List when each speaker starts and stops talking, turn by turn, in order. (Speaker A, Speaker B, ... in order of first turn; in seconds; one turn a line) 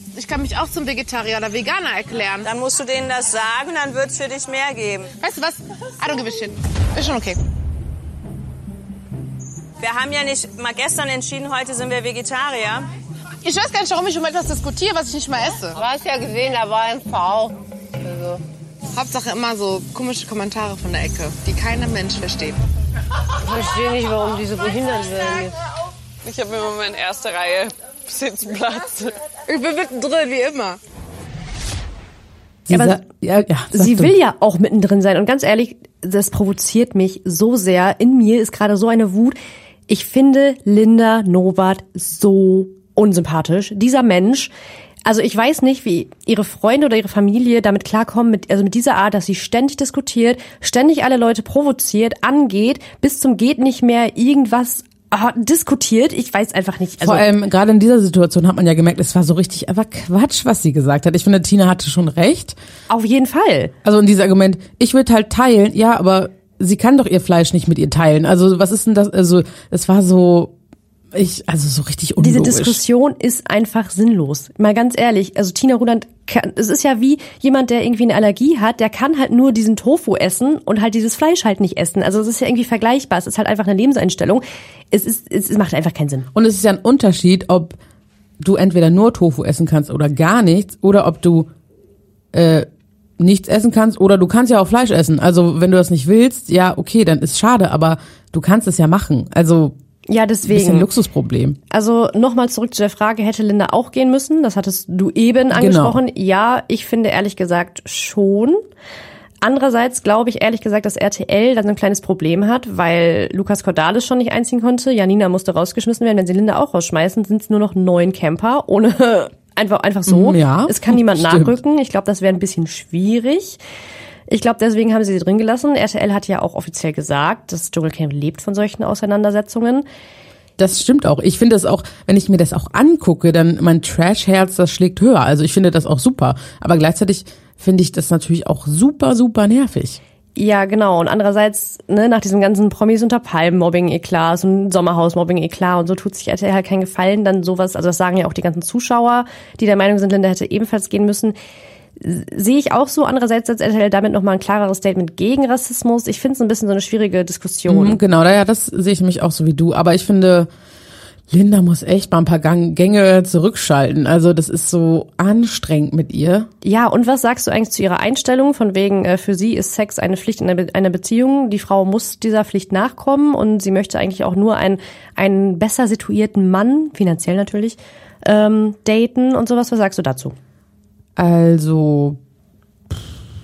Speaker A: 0.1-2.5
Speaker B: 2.4-5.1
Speaker A: 5.2-7.4
Speaker B: 9.8-12.9
Speaker A: 13.4-15.8
Speaker C: 15.8-18.4
Speaker A: 18.9-22.6
Speaker C: 23.4-25.6
Speaker D: 26.2-29.1
Speaker A: 29.5-30.8
Speaker E: 32.7-34.1
Speaker F: 32.7-33.0
Speaker F: 33.7-39.4
Speaker F: 39.9-44.5
Speaker F: 45.0-57.3
Speaker E: 57.0-62.6
Speaker F: 62.9-63.7
Speaker E: 63.8-70.5
Speaker E: 71.1-72.8
Speaker F: 72.2-86.3
Speaker E: 86.3-87.8
Speaker E: 88.4-91.5
Speaker E: 92.3-92.7
Speaker E: 93.2-99.7
Speaker F: 100.1-100.9
Speaker E: 100.5-101.6
Speaker F: 101.7-108.6
Speaker E: 105.5-106.0
Speaker F: 109.4-123.6
Speaker E: 120.1-121.6
Speaker F: 124.3-129.9
Speaker E: 130.6-140.0
Speaker F: 140.4-151.3
Speaker F: 152.0-158.0
Speaker E: 157.7-160.5
Speaker E: 161.3-166.5
Speaker F: 166.6-180.4
Speaker E: 181.2-182.2